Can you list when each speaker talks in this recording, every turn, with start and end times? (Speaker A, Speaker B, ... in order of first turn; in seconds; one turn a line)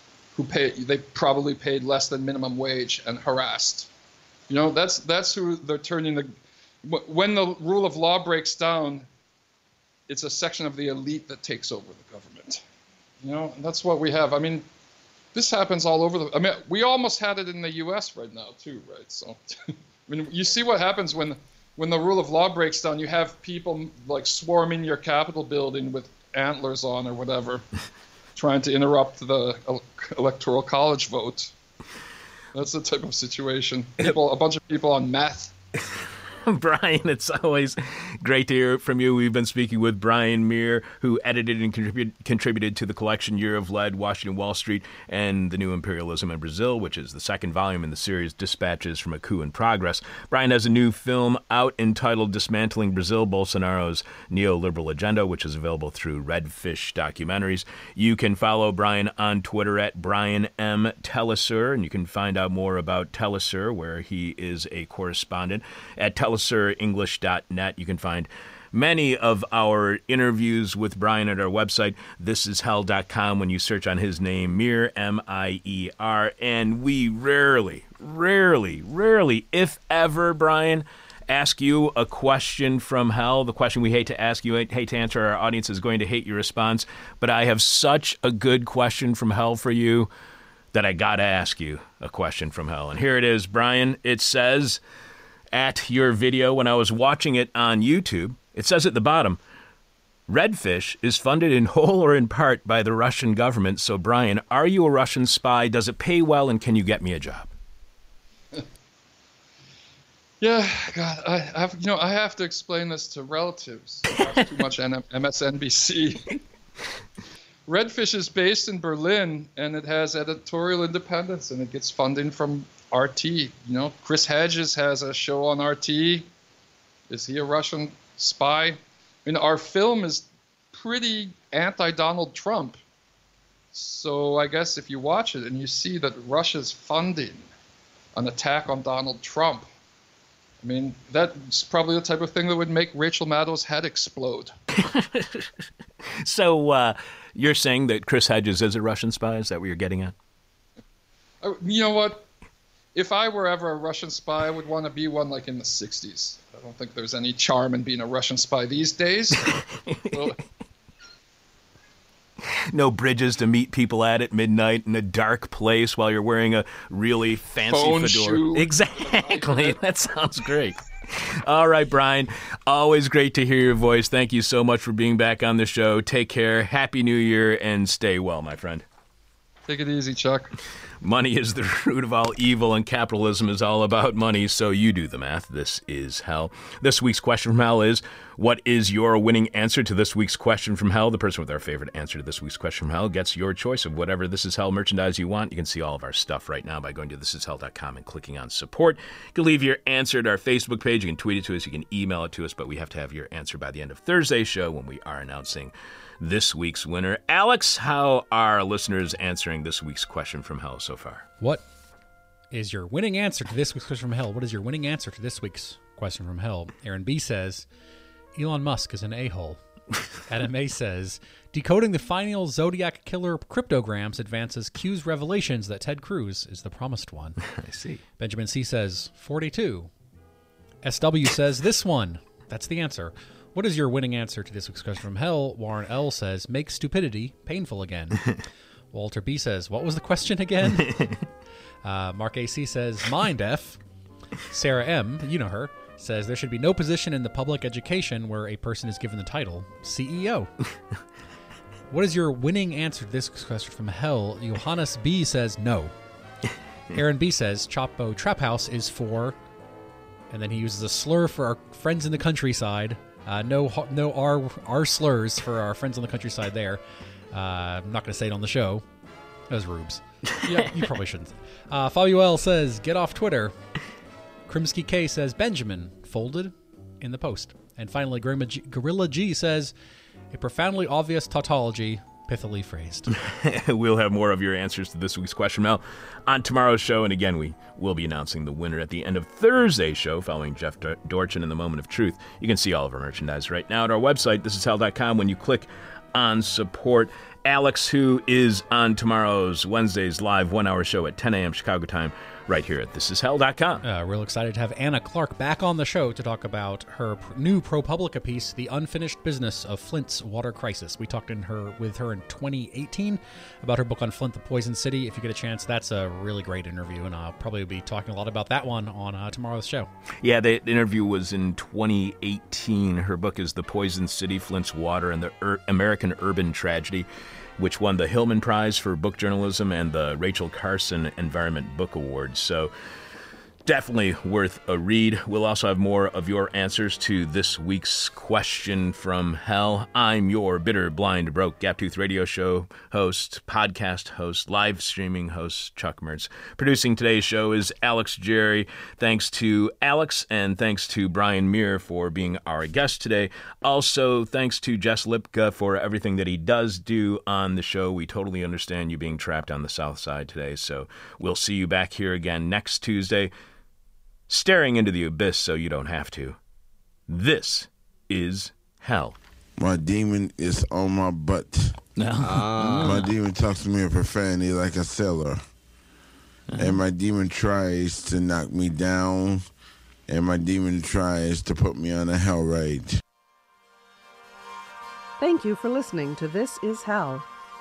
Speaker A: 0.4-3.9
Speaker A: 4.5-6.3
Speaker A: 6.8-9.1
Speaker A: 10.1-12.6
Speaker A: 13.2-14.7
Speaker A: 15.3-27.6
Speaker A: 28.4-31.5
Speaker A: 32.5-35.5
Speaker B: 36.5-90.1
Speaker B: 90.7-94.8
Speaker B: 95.5-99.4
Speaker B: 100.3-107.5
Speaker A: 110.4-116.4
Speaker A: 117.7-126.3
Speaker A: 127.1-132.8
Speaker A: 133.7-137.5
Speaker A: 138.2-139.7
Speaker A: 140.6-144.5
Speaker B: 144.7-150.2
Speaker A: 151.4-152.3
Speaker A: 152.9-160.4
Speaker B: 159.6-160.3
Speaker B: 162.4-178.8
Speaker A: 167.6-168.7
Speaker A: 169.3-169.7
Speaker A: 179.7-180.5
Speaker B: 181.0-211.3
Speaker C: 212.5-217.7
Speaker C: 218.3-219.6
Speaker C: 220.3-227.5
Speaker B: 227.6-228.0
Speaker C: 228.2-229.9
Speaker C: 230.8-238.4
Speaker C: 238.9-241.2
Speaker C: 241.8-243.8
Speaker C: 244.4-250.5
Speaker C: 251.9-255.9
Speaker C: 256.9-259.4
Speaker C: 260.3-266.8
Speaker C: 267.3-268.8
Speaker C: 269.5-273.5
Speaker C: 274.5-279.7
Speaker C: 280.3-283.1
Speaker B: 283.1-303.8
Speaker C: 303.9-319.9
Speaker B: 320.2-327.1
Speaker B: 327.6-332.7
Speaker B: 333.6-363.3
Speaker B: 364.3-366.4
Speaker B: 367.1-369.2
Speaker D: 369.6-371.8
Speaker B: 372.0-373.1
Speaker D: 372.4-375.4
Speaker D: 376.6-379.4
Speaker D: 380.1-383.0
Speaker E: 385.2-387.3